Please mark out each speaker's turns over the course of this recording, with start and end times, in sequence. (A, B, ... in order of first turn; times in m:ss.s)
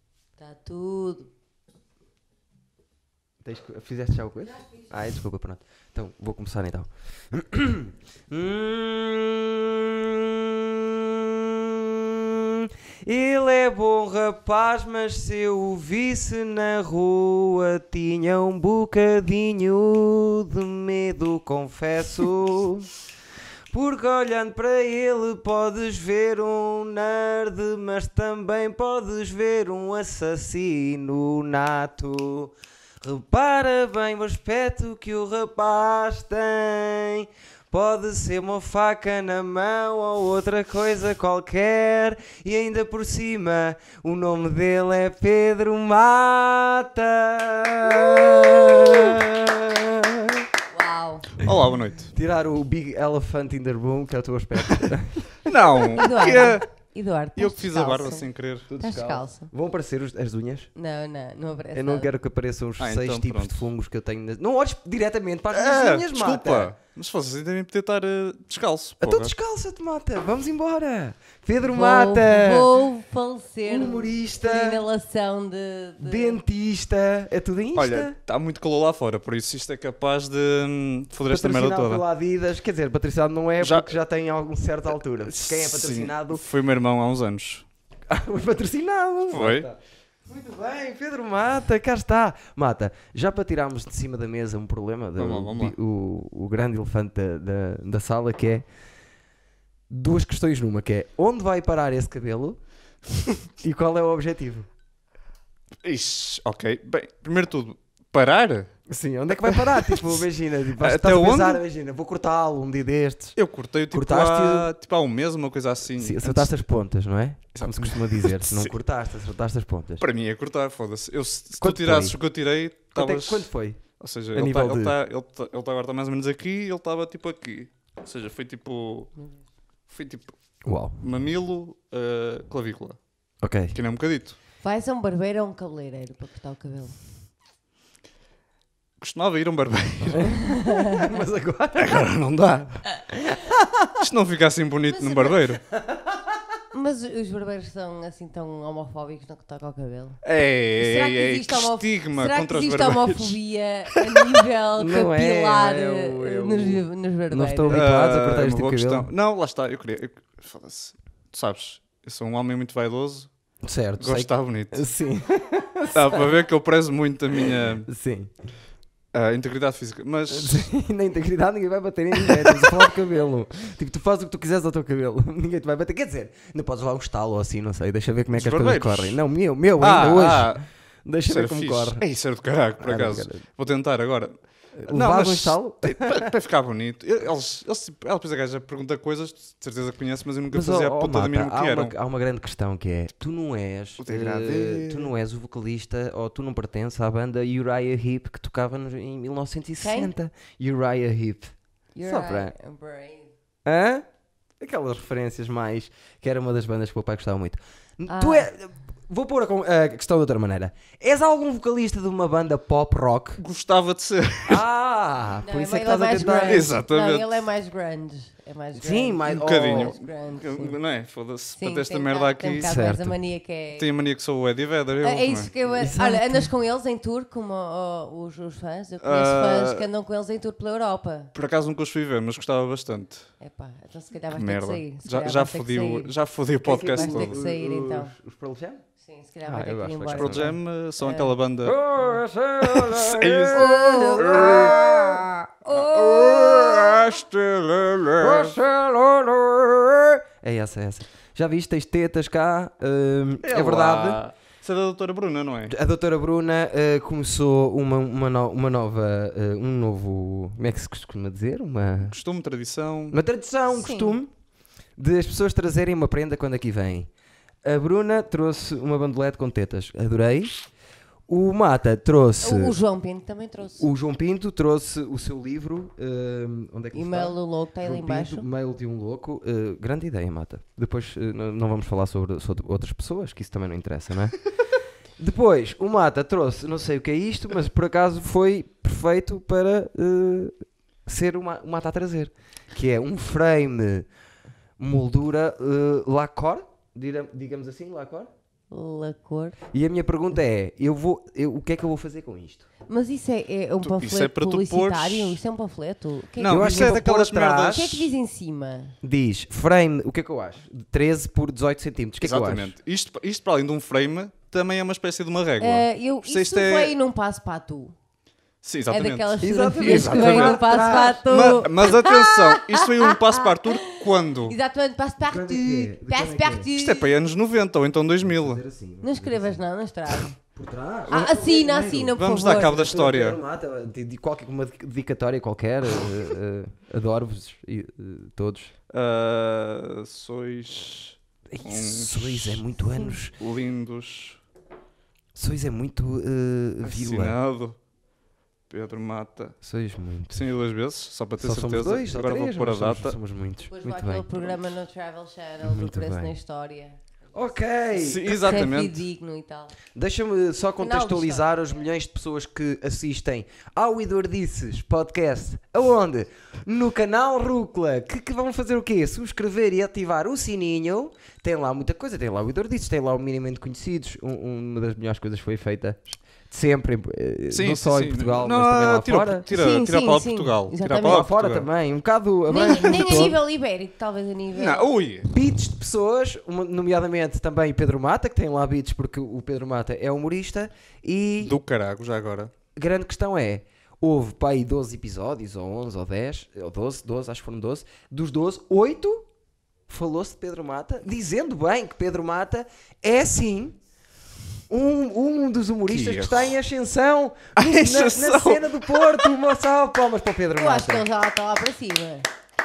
0:00.4-0:01.3 A
0:03.4-0:22.9 B
0:23.7-0:50.5 B
0:50.7-0:51.4 A
0:51.4-0:52.1 C
0:52.1-0:55.5 B
0:55.4-0:56.6 C
0:55.9-0:58.3 A
0:57.4-0:58.7 C
0:58.7-1:00.7 B
0:58.8-0:59.5 A
1:00.8-1:02.1 A
1:01.7-1:06.7 B
1:02.8-1:03.6 C
1:05.5-1:09.3 C
1:09.0-1:12.7 B
1:11.6-1:16.4 A
1:13.6-1:14.8 B
1:16.0-1:18.2 B
1:17.7-1:22.0 C
1:21.3-1:26.4 B
1:23.6-1:24.0 C
1:25.2-1:27.6 C
1:28.1-1:38.6 B
1:29.3-1:29.7 C
1:35.2-1:35.7 C
1:39.9-1:42.6 B
1:43.6-1:44.7 B
1:45.8-1:48.7 C
1:48.9-1:53.4 B
1:49.4-1:50.2 C
1:50.8-1:51.6 C
1:53.4-1:56.5 C
1:53.9-1:54.7 B
1:56.0-2:00.0 B
1:57.5-1:58.7 C
2:00.0-2:09.1 C
2:01.6-2:02.2 B
2:02.9-2:03.8 B
2:04.3-2:04.9 B
2:09.9-2:10.3 C
2:10.6-2:11.0 B
2:11.0-2:13.0 C
2:13.4-2:13.8 B
2:13.7-2:14.4 C
2:14.6-2:17.0 A
2:19.0-2:20.5 C
2:20.1-2:22.0 B
2:20.4-2:21.1 A
2:21.8-2:22.8 C
2:23.2-2:23.9 B
2:24.0-2:25.6 C
2:24.9-2:25.5 A
2:25.8-2:26.2 B
2:26.7-2:30.2 A
2:30.2-2:33.4 C
2:30.8-2:37.8 A
2:33.9-2:34.4 C
2:34.8-2:39.1 B
2:37.7-2:43.3 C
2:43.6-2:46.4 B
2:44.0-2:44.8 C
2:45.9-2:47.9 C
2:47.4-2:48.3 B
2:49.1-2:50.6 C
2:50.3-3:02.0 B
2:52.2-2:52.8 C
2:58.3-2:59.2 C
2:59.8-3:00.6 C
3:01.3-3:04.3 C
3:02.8-3:03.4 B
3:04.7-3:06.3 B
3:04.9-3:11.9 C
3:10.5-3:21.5 B
3:14.0-3:15.1 C
3:19.8-3:20.1 A
3:21.9-3:23.3 A
3:22.0-3:22.5 B
3:23.6-3:24.0 B
3:24.6-3:33.4 B
3:28.1-3:28.5 A
3:33.4-3:34.6 C
3:34.4-3:36.8 B
3:35.4-3:40.8 A
3:36.4-3:37.4 C
3:38.7-3:39.9 B
3:39.2-3:42.7 C
3:41.6-3:43.9 A
3:42.6-3:43.2 B
3:43.8-3:45.5 C
3:45.0-3:51.3 A
3:45.6-3:46.5 B
3:49.0-3:49.8 C
3:51.3-3:53.3 C
3:53.4-3:56.1 A
3:54.3-3:57.3 C
3:56.6-3:58.8 B
3:56.9-3:58.1 A
3:59.0-4:01.3 A
3:59.4-4:00.5 B
4:00.1-4:01.8 C
4:01.6-4:05.3 B
4:02.6-4:04.8 C
4:03.5-4:07.0 A
4:05.7-4:08.6 C
4:08.2-4:14.2 B
4:13.4-4:15.7 C
4:15.7-4:22.1 B
4:22.1-4:23.2 C
4:23.1-4:24.3 B
4:23.8-4:24.2 A
4:25.0-4:27.1 B
4:27.6-4:30.6 B
4:31.3-4:32.7 B
4:32.4-4:33.9 A
4:33.8-4:44.4 B
4:36.9-4:38.5 A
4:45.2-4:54.1 B
4:54.8-4:58.3 B
4:58.7-4:59.6 A
4:59.7-5:02.6 B
5:02.9-5:07.0 A
5:03.8-5:05.4 C
5:06.4-5:08.1 C
5:06.5-5:07.9 B
5:07.7-5:08.9 A
5:09.0-5:12.7 B
5:12.2-5:16.9 C
5:15.6-5:17.9 A
5:18.6-5:20.6 C
5:18.9-5:27.1 A
5:19.4-5:21.7 B
5:21.3-5:24.6 C
5:25.2-5:26.7 B
5:26.7-5:28.6 C
5:28.2-5:29.6 B
5:29.0-5:30.4 A
5:30.5-5:38.7 B
5:31.1-5:32.9 A
5:32.2-5:33.4 C
5:38.9-5:44.4 C
5:41.5-5:43.3 B
5:45.3-5:47.4 B
5:46.8-5:47.8 C
5:48.7-5:49.6 C
5:49.6-5:50.4 B
5:50.3-5:53.2 C
5:51.4-5:54.3 B
5:53.7-5:57.0 A
5:55.6-5:56.3 B
5:57.3-5:58.5 B
5:57.9-5:59.0 C
5:58.3-5:59.7 A
5:59.9-6:19.4 B
6:00.8-6:01.6 A
6:17.5-6:21.7 C
6:19.5-6:21.3 A
6:20.9-6:23.4 B
6:22.5-6:24.9 A
6:22.7-6:23.4 C
6:24.5-6:25.3 C
6:25.3-6:31.6 B
6:31.4-6:32.5 C
6:32.8-6:39.2 B
6:39.9-6:43.8 B
6:44.7-6:51.0 B
6:45.9-6:46.6 C
6:47.6-6:49.3 C
6:50.6-6:52.2 A